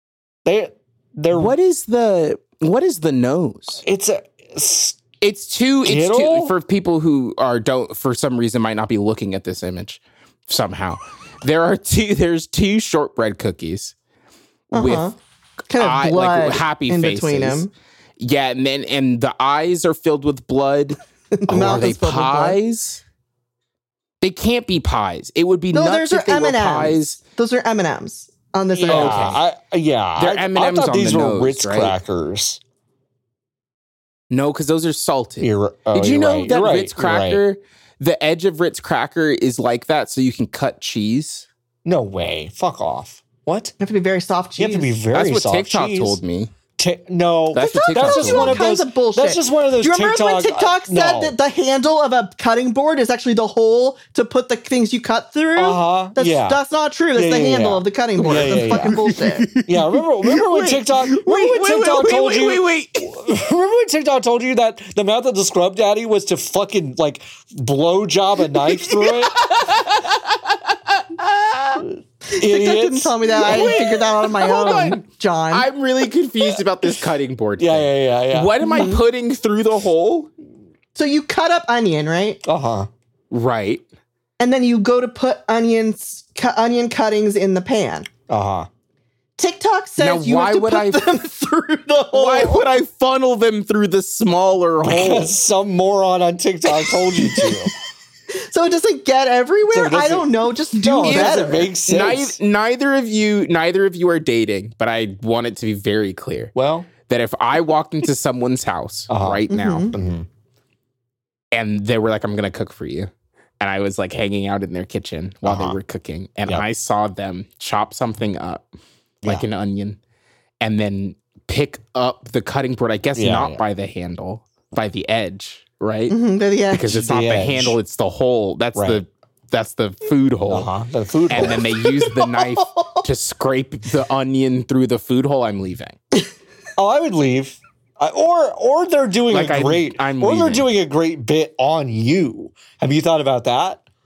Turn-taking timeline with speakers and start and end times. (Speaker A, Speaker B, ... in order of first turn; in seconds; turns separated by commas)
Speaker A: 0.4-1.5, Speaker B: 1.3-3.8, Speaker A: 3.8-5.0, Speaker B: 5.2-13.9, Speaker A: 5.8-6.5, Speaker B: 14.7-15.1, Speaker C: 14.7-15.1, Speaker C: 15.7-17.7, Speaker B: 15.8-17.7, Speaker B: 18.2-23.0, Speaker C: 21.3-22.6, Speaker B: 24.2-27.2, Speaker C: 25.7-29.4, Speaker A: 28.7-32.6, Speaker B: 28.9-29.4, Speaker B: 30.2-31.9, Speaker B: 34.3-41.5, Speaker A: 35.4-37.4, Speaker A: 41.8-43.7, Speaker C: 43.8-45.0, Speaker A: 44.6-46.2, Speaker B: 45.1-46.5, Speaker A: 46.8-51.3, Speaker B: 47.5-48.6, Speaker C: 47.5-59.5, Speaker A: 55.5-56.6, Speaker A: 57.1-59.0, Speaker B: 58.3-63.1, Speaker A: 59.6-69.5, Speaker B: 68.8-71.8, Speaker A: 71.8-73.8, Speaker C: 72.3-75.7, Speaker B: 73.4-80.3, Speaker A: 77.6-78.6, Speaker C: 78.6-79.0, Speaker C: 81.0-82.4, Speaker A: 82.4-82.9, Speaker B: 83.3-83.8, Speaker C: 84.4-88.1, Speaker A: 88.3-88.7, Speaker C: 89.4-92.7, Speaker B: 90.0-91.0, Speaker B: 92.1-95.3, Speaker A: 94.8-97.7, Speaker C: 96.8-97.5, Speaker C: 98.4-101.7, Speaker A: 99.7-102.4, Speaker B: 101.0-106.5, Speaker A: 106.5-106.9, Speaker B: 107.1-109.9, Speaker A: 109.1-110.3, Speaker C: 109.5-109.9, Speaker B: 111.5-118.6, Speaker A: 115.4-115.8, Speaker B: 119.2-120.0, Speaker B: 120.6-126.1, Speaker A: 123.2-123.6, Speaker C: 126.1-127.1, Speaker B: 126.7-130.7, Speaker A: 127.0-127.8, Speaker A: 128.7-129.0, Speaker A: 130.5-131.7, Speaker B: 131.3-135.9, Speaker C: 131.6-133.1, Speaker A: 136.8-143.8, Speaker B: 139.3-140.7